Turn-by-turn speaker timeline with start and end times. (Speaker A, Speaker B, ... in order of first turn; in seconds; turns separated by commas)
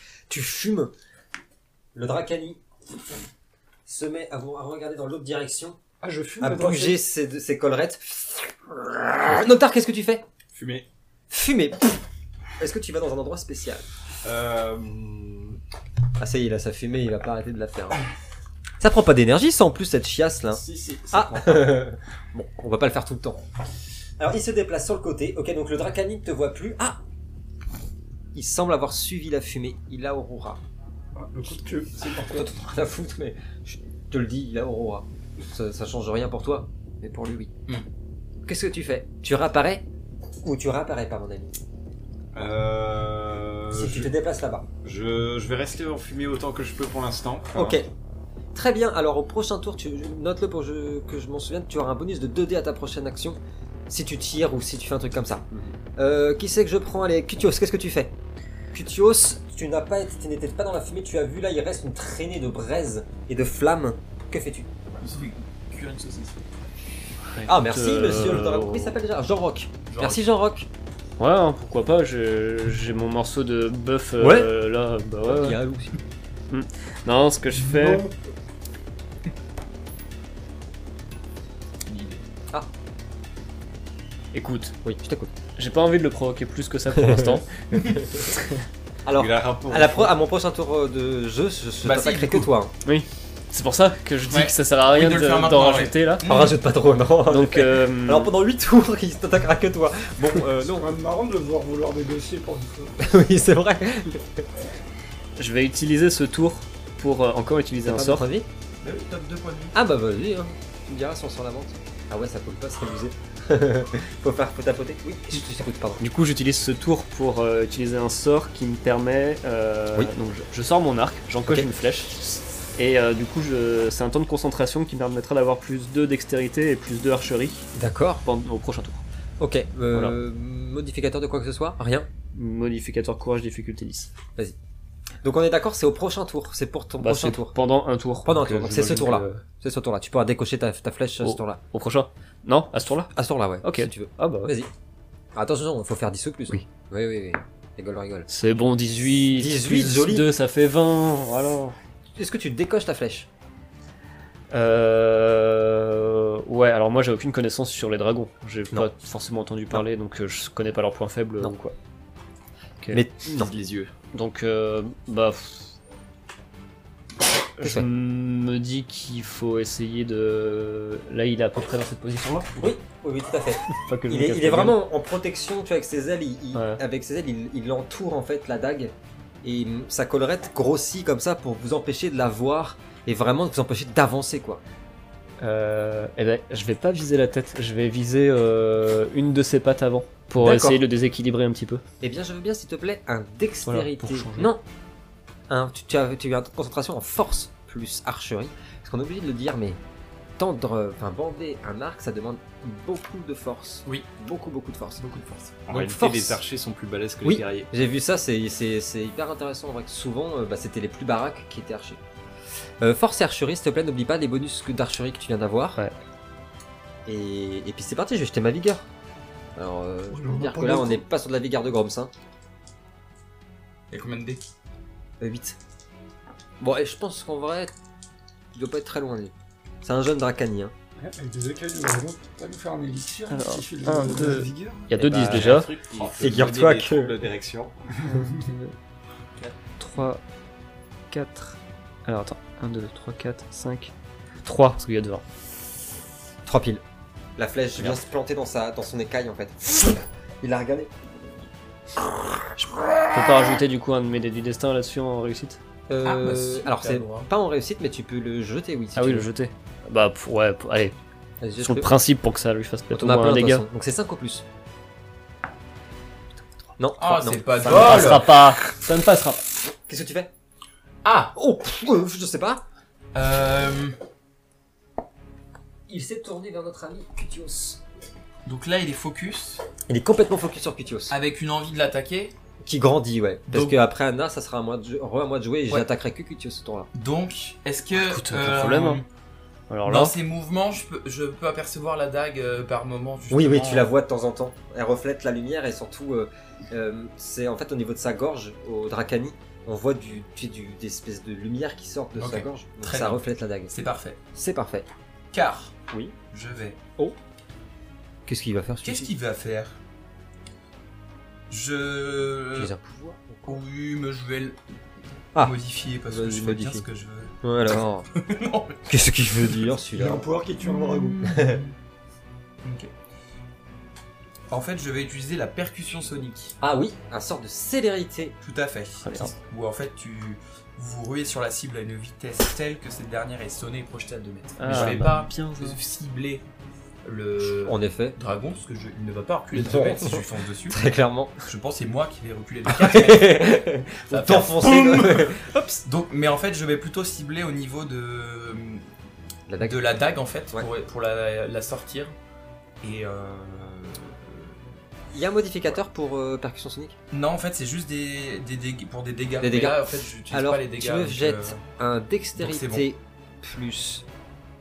Speaker A: 0.3-0.9, Speaker A: 1.9-2.6, Speaker A: 3.9-5.8, Speaker B: 6.0-7.0, Speaker A: 6.4-10.2, Speaker C: 10.5-10.9, Speaker A: 11.3-12.0, Speaker A: 12.6-13.9, Speaker C: 14.2-15.6, Speaker A: 16.2-18.0, Speaker A: 18.8-20.6, Speaker C: 20.5-21.9, Speaker A: 21.1-23.4, Speaker A: 24.2-27.0, Speaker A: 28.3-30.6, Speaker B: 31.2-32.5, Speaker A: 32.0-37.5, Speaker A: 38.4-39.9, Speaker A: 40.4-41.5, Speaker C: 42.3-44.1, Speaker A: 43.7-44.7, Speaker C: 44.8-47.8, Speaker A: 47.5-47.9, Speaker A: 48.5-58.1, Speaker A: 58.7-64.7, Speaker D: 65.0-66.4, Speaker E: 67.3-69.0, Speaker A: 67.5-70.7, Speaker D: 69.9-70.2, Speaker E: 71.2-75.6, Speaker A: 74.2-74.5, Speaker A: 75.2-76.0, Speaker E: 76.5-78.0, Speaker B: 77.6-78.1, Speaker D: 81.9-82.2, Speaker E: 84.3-84.8, Speaker A: 84.8-85.3, Speaker E: 85.6-87.5, Speaker A: 87.0-88.2, Speaker A: 89.0-92.7, Speaker C: 89.1-90.1, Speaker D: 91.8-92.5, Speaker E: 92.8-96.2, Speaker D: 94.3-96.6, Speaker A: 96.2-100.9, Speaker E: 97.2-98.3, Speaker B: 100.8-103.0, Speaker A: 103.0-104.5, Speaker E: 105.4-108.2, Speaker A: 107.8-108.5, Speaker D: 108.8-109.7, Speaker A: 109.7-116.0, Speaker E: 116.0-122.2, Speaker E: 122.8-127.7, Speaker A: 127.7-128.2, Speaker E: 128.2-129.0, Speaker A: 129.4-132.1, Speaker E: 132.3-134.1, Speaker A: 135.2-137.6, Speaker E: 137.0-139.4, Speaker A: 138.2-141.6, Speaker E: 141.2-143.1, Speaker A: 143.1-144.7, Speaker E: 143.6-144.5, Speaker A: 145.3-148.3, Speaker E: 148.3-151.8, Speaker A: 149.4-150.3, Speaker A: 152.2-153.3, Speaker E: 154.5-161.8, Speaker A: 162.9-163.5, Speaker C: 163.4-163.9, Speaker E: 164.1-165.8, Speaker E: 167.6-172.8, Speaker A: 167.6-167.9, Speaker A: 172.6-184.6, Speaker E: 173.7-174.8, Speaker E: 176.6-176.8, Speaker E: 185.4-191.8, Speaker A: 190.4-190.8, Speaker A: 192.0-194.6, Speaker E: 193.7-194.5, Speaker A: 195.5-199.8, Speaker A: 200.4-205.0, Speaker D: 205.0-205.6, Speaker C: 205.6-207.7, Speaker A: 205.7-206.4, Speaker A: 207.2-212.0, Speaker A: 212.8-215.8, Speaker A: 217.1-218.9, Speaker A: 219.6-222.1, Speaker B: 220.1-221.0, Speaker D: 223.9-224.4, Speaker A: 225.2-225.6, Speaker A: 226.6-227.7, Speaker A: 228.5-230.7, Speaker B: 231.0-234.9, Speaker E: 233.3-235.7, Speaker C: 235.0-238.2, Speaker A: 236.2-237.1, Speaker E: 238.2-238.8, Speaker E: 239.8-240.2, Speaker E: 241.1-243.9, Speaker E: 244.4-245.2, Speaker A: 246.4-246.8, Speaker A: 247.4-251.1, Speaker A: 252.4-253.3, Speaker E: 253.1-255.6, Speaker A: 255.9-259.3, Speaker D: 256.0-257.3, Speaker E: 259.0-261.0, Speaker A: 261.4-261.9, Speaker E: 261.6-263.6, Speaker A: 262.9-264.4, Speaker A: 266.8-268.3, Speaker D: 267.0-268.3, Speaker E: 267.6-269.4, Speaker A: 269.8-270.3, Speaker D: 271.0-271.3, Speaker A: 271.4-272.6, Speaker D: 273.1-274.0, Speaker A: 275.9-277.8, Speaker D: 278.4-279.6, Speaker A: 279.9-281.1, Speaker D: 281.1-282.3, Speaker A: 282.6-286.9, Speaker D: 283.5-283.8, Speaker D: 286.9-289.1, Speaker E: 288.0-289.0, Speaker E: 289.7-290.1, Speaker D: 289.9-293.9, Speaker A: 293.3-303.7, Speaker D: 302.2-304.2, Speaker A: 304.3-304.9, Speaker D: 305.3-305.8, Speaker A: 305.9-306.1, Speaker D: 306.3-306.8, Speaker A: 308.2-309.1, Speaker D: 308.8-309.8, Speaker D: 311.5-312.7, Speaker A: 312.6-313.6, Speaker D: 313.4-314.6, Speaker D: 315.4-317.4, Speaker A: 316.1-316.9, Speaker A: 317.4-318.1, Speaker D: 318.1-318.8, Speaker A: 318.9-320.2, Speaker B: 319.9-321.2, Speaker D: 320.6-321.8, Speaker A: 321.2-321.6, Speaker D: 322.6-322.9, Speaker D: 324.5-326.6, Speaker A: 326.6-328.4, Speaker D: 328.4-336.4, Speaker E: 329.0-329.3, Speaker E: 334.6-335.8, Speaker A: 334.7-335.1, Speaker D: 337.1-340.9, Speaker A: 337.4-338.2, Speaker A: 339.5-341.4, Speaker D: 341.4-348.9, Speaker A: 342.7-345.6, Speaker A: 349.5-349.8, Speaker D: 349.6-352.1, Speaker D: 352.8-354.6, Speaker A: 355.1-357.0, Speaker D: 357.1-361.6, Speaker A: 359.4-364.1, Speaker D: 362.4-362.9